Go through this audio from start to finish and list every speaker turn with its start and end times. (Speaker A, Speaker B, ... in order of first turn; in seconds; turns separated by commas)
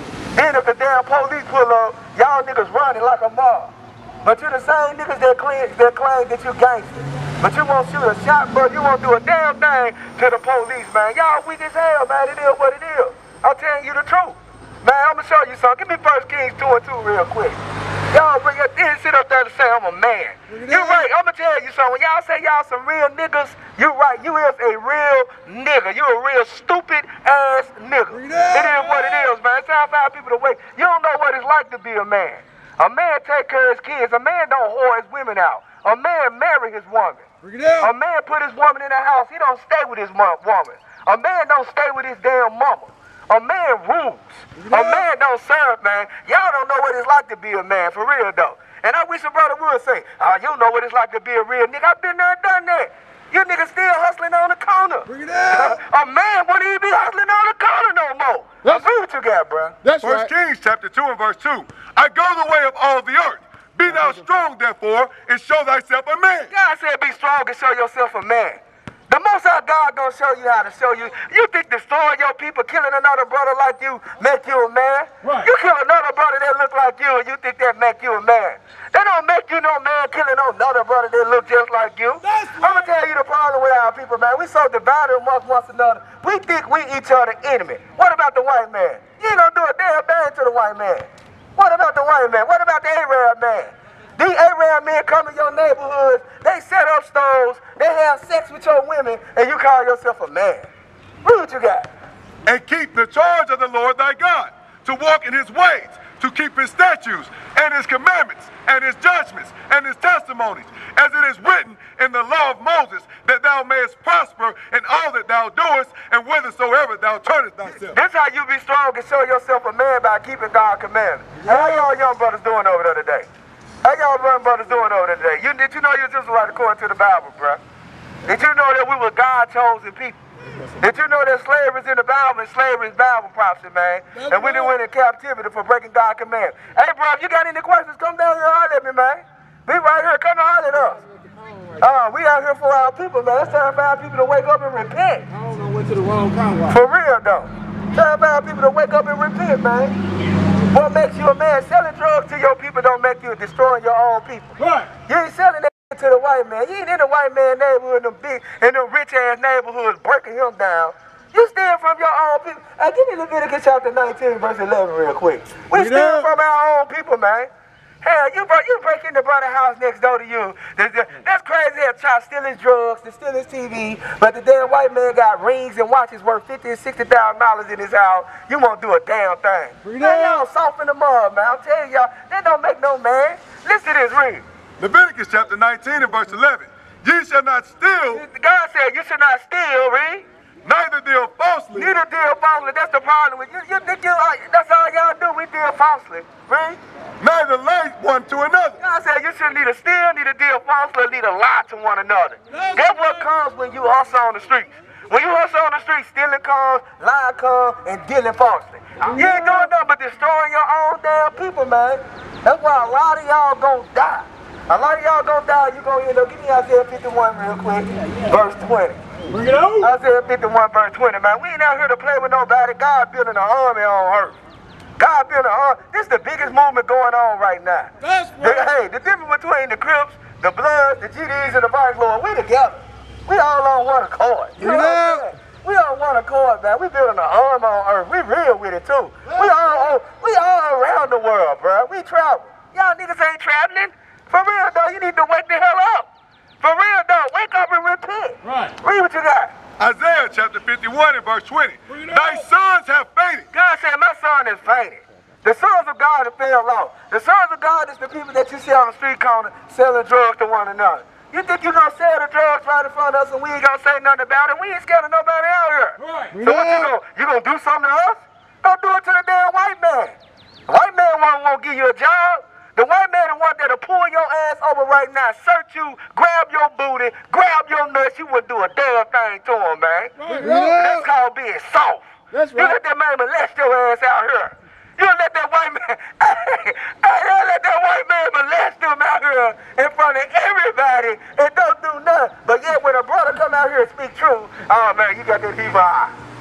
Speaker A: 0.3-37.2, Speaker B: 20.5-21.1, Speaker B: 28.1-29.3, Speaker B: 37.4-37.9, Speaker A: 37.8-59.8, Speaker B: 44.6-45.1, Speaker B: 55.1-55.8, Speaker B: 59.8-60.3, Speaker C: 60.0-66.5, Speaker A: 66.5-100.7, Speaker B: 75.2-75.5, Speaker B: 82.2-82.9, Speaker A: 101.2-101.9, Speaker C: 102.4-118.0, Speaker A: 117.8-123.3, Speaker B: 121.4-121.9, Speaker A: 123.8-127.6, Speaker A: 128.2-130.2, Speaker A: 130.8-141.0, Speaker B: 134.2-134.7, Speaker B: 140.9-141.8, Speaker A: 141.8-145.3, Speaker B: 145.3-146.8, Speaker A: 146.7-149.9, Speaker A: 150.7-167.5, Speaker B: 154.6-154.9, Speaker B: 165.7-166.3, Speaker A: 168.0-184.4, Speaker B: 179.8-180.4, Speaker C: 184.8-188.2, Speaker A: 188.1-190.2, Speaker C: 190.6-191.9, Speaker A: 191.7-196.8, Speaker C: 197.2-198.8, Speaker A: 198.8-219.0, Speaker B: 202.5-203.2, Speaker B: 209.1-209.7, Speaker B: 219.3-219.9, Speaker A: 219.8-224.4, Speaker A: 225.0-246.1, Speaker B: 228.0-228.7, Speaker B: 234.6-235.2, Speaker B: 239.3-239.6, Speaker A: 246.6-249.5, Speaker B: 248.4-248.7, Speaker C: 249.8-253.5, Speaker B: 251.9-252.4, Speaker A: 253.5-270.1, Speaker B: 266.0-266.9, Speaker A: 270.7-296.1, Speaker B: 280.2-281.1, Speaker B: 282.3-282.8